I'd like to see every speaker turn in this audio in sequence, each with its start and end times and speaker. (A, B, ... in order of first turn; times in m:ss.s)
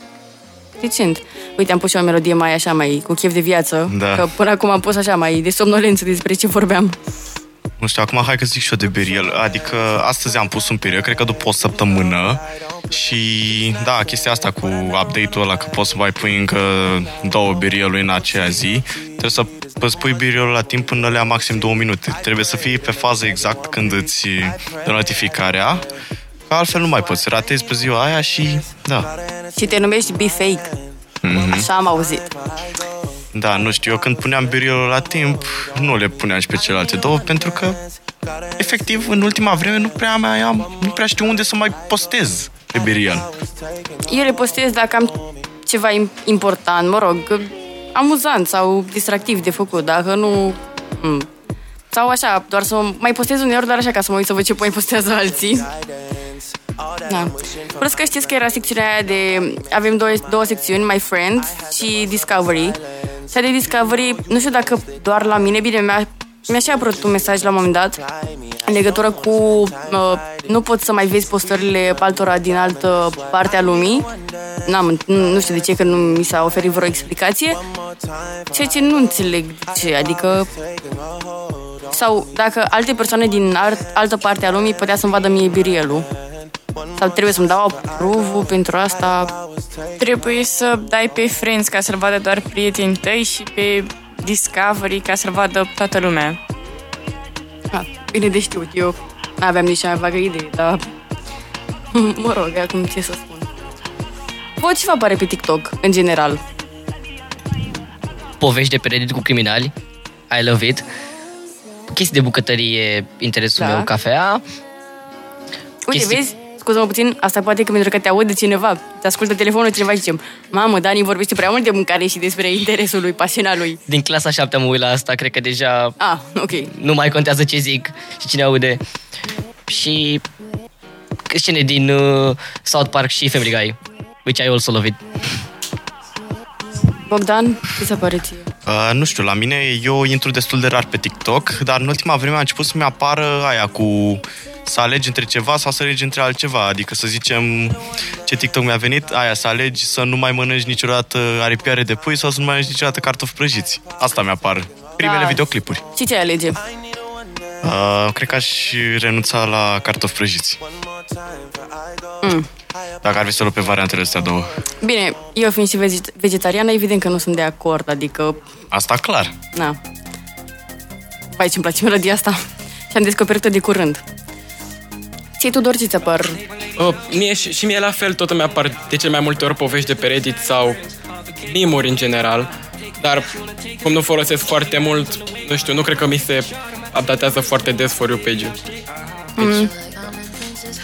0:00.8-0:07.0 A
0:03.9-0:04.3 B
0:07.8-0:25.9 B
0:26.5-0:29.1 B
0:29.5-0:30.7 A
0:31.2-0:31.7 B
0:31.5-0:32.3 A
0:33.3-0:37.8 B
0:38.6-0:43.3 B
0:44.1-0:51.3 A
0:51.9-0:55.7 A
0:57.1-1:02.8 A
1:03.3-1:08.0 A
1:08.7-1:14.1 A
1:14.7-1:17.6 A
1:18.5-1:20.5 A
1:21.9-1:26.1 A
1:27.0-1:29.3 A
1:30.0-1:36.4 C
1:37.7-1:40.8 A
1:41.9-1:43.5 A
1:44.6-1:46.4 A
1:48.4-1:49.7 D
1:50.3-1:50.8 D
1:51.9-1:54.4 D
1:53.6-1:53.9 A
1:55.8-2:03.8 A
1:55.9-1:56.2 D
2:03.9-2:06.0 D
2:06.0-2:06.7 A
2:06.8-2:08.8 D
2:09.7-2:10.2 D
2:11.3-2:15.0 D
2:17.1-2:18.5 A
2:18.7-2:35.8 B
2:35.0-2:35.4 A
2:35.9-2:36.6 A
2:37.6-2:40.6 B
2:42.2-2:42.5 A
2:43.0-2:44.5 B
2:44.8-2:48.4 A
2:48.7-2:49.3 B
2:51.4-2:54.0 A
2:55.4-2:56.4 A
2:56.8-3:00.8 E
3:01.4-3:03.3 E
3:03.8-3:08.6 E
3:09.4-3:09.7 A